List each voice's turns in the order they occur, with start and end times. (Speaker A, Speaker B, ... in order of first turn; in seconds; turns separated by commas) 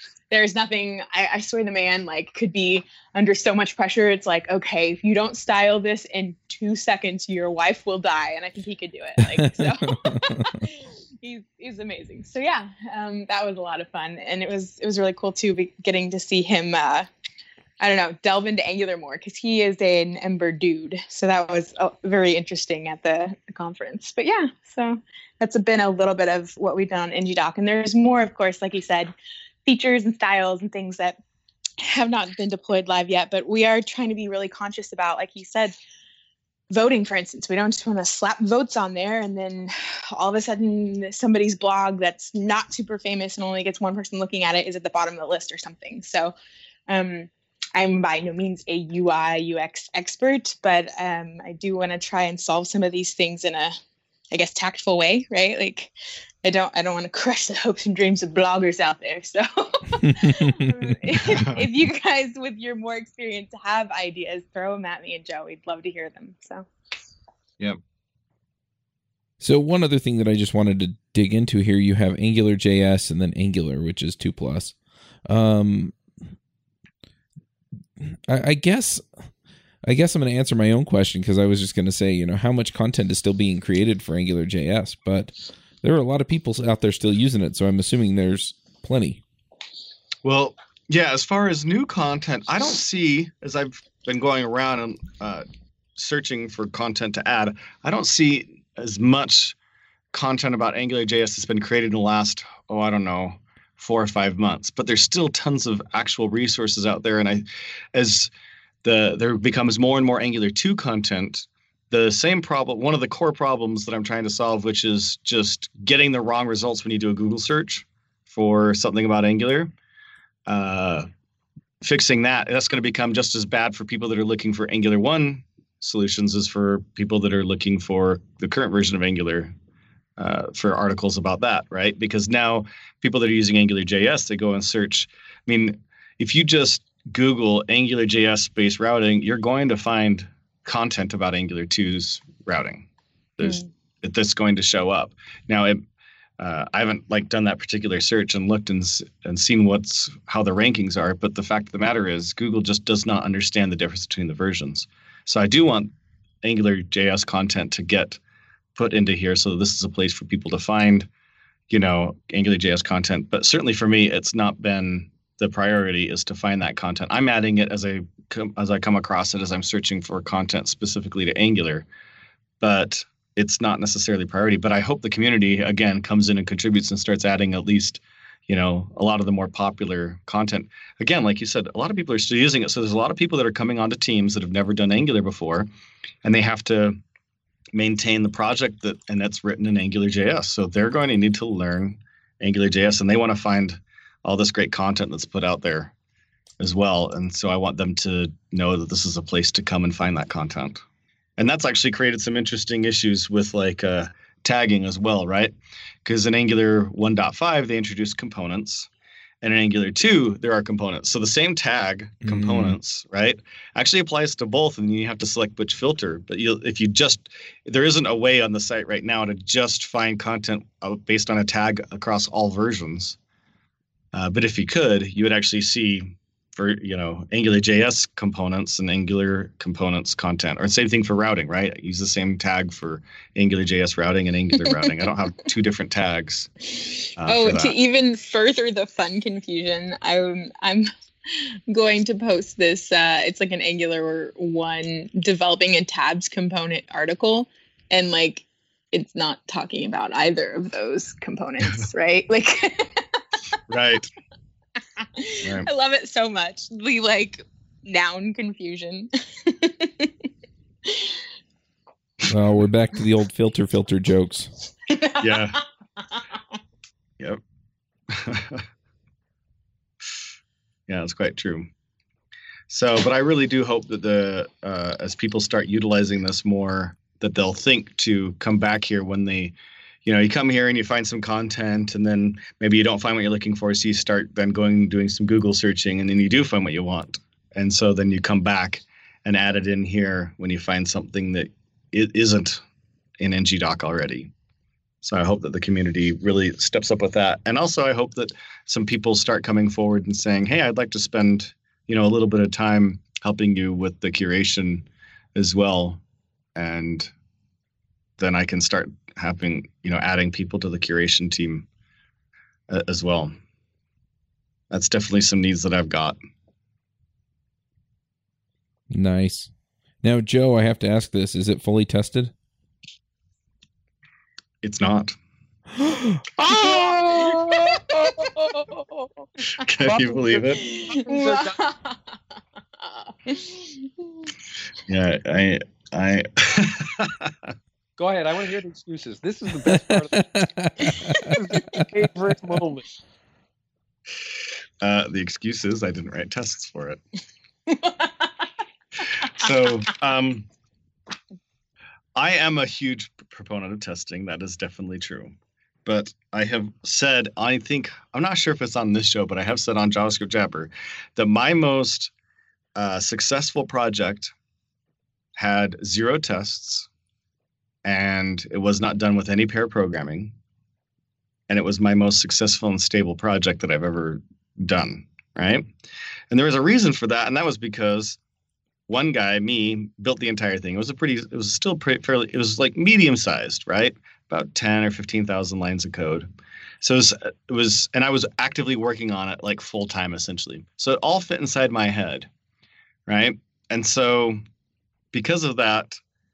Speaker A: 0.3-17.1, Speaker B: 9.3-10.6, Speaker A: 17.8-29.1, Speaker A: 29.6-31.2, Speaker A: 31.8-35.7, Speaker A: 36.7-46.3, Speaker A: 46.9-53.7, Speaker A: 54.3-55.9, Speaker A: 56.4-66.7, Speaker B: 60.1-60.5, Speaker C: 61.2-61.7, Speaker B: 69.4-74.7, Speaker B: 75.3-75.9, Speaker B: 78.3-79.0, Speaker B: 79.9-89.2, Speaker C: 90.2-95.4, Speaker C: 96.0-99.6, Speaker C: 100.1-108.3, Speaker C: 108.8-119.7, Speaker C: 120.5-121.1, Speaker C: 121.8-129.5, Speaker C: 130.2-142.8, Speaker C: 143.4-145.8, Speaker C: 146.4-155.9, Speaker C: 156.4-158.2, Speaker C: 158.8-161.1, Speaker C: 161.7-171.8, Speaker C: 172.6-185.7, Speaker C: 186.2-187.0, Speaker C: 187.7-195.9, Speaker C: 196.6-200.8, Speaker C: 201.4-208.9, Speaker C: 209.4-223.2, Speaker B: 212.2-212.8, Speaker C: 224.1-236.5, Speaker A: 236.8-253.2, Speaker C: 237.2-237.8, Speaker C: 253.7-254.1, Speaker A: 255.0-260.1, Speaker C: 255.4-255.7, Speaker A: 260.9-261.2, Speaker B: 262.3-264.5, Speaker A: 264.9-265.6, Speaker C: 265.2-265.6, Speaker C: 268.1-268.6, Speaker C: 270.9-271.7, Speaker C: 272.7-292.6, Speaker C: 293.2-294.3, Speaker C: 295.0-306.0, Speaker C: 306.6-307.1, Speaker C: 308.2-311.6, Speaker C: 312.7-313.3, Speaker C: 314.7-316.1, Speaker B: 318.9-319.5, Speaker B: 320.0-322.3, Speaker C: 324.6-325.1, Speaker D: 326.4-328.5, Speaker A: 326.5-329.1, Speaker C: 329.6-330.6, Speaker D: 329.8-331.5, Speaker A: 330.5-332.0, Speaker A: 332.8-334.1, Speaker C: 334.9-337.5, Speaker D: 338.0-340.3, Speaker B: 340.2-341.8, Speaker D: 340.9-342.9, Speaker C: 344.8-347.0, Speaker A: 347.7-348.4, Speaker C: 349.1-350.4, Speaker C: 352.1-355.3, Speaker C: 355.8-362.1, Speaker C: 362.8-364.3, Speaker C: 365.4-366.9, Speaker C: 367.8-370.3, Speaker C: 371.5-375.7, Speaker C: 376.3-378.2, Speaker C: 378.9-386.3, Speaker C: 386.8-392.3, Speaker C: 393.1-394.4, Speaker C: 395.1-396.0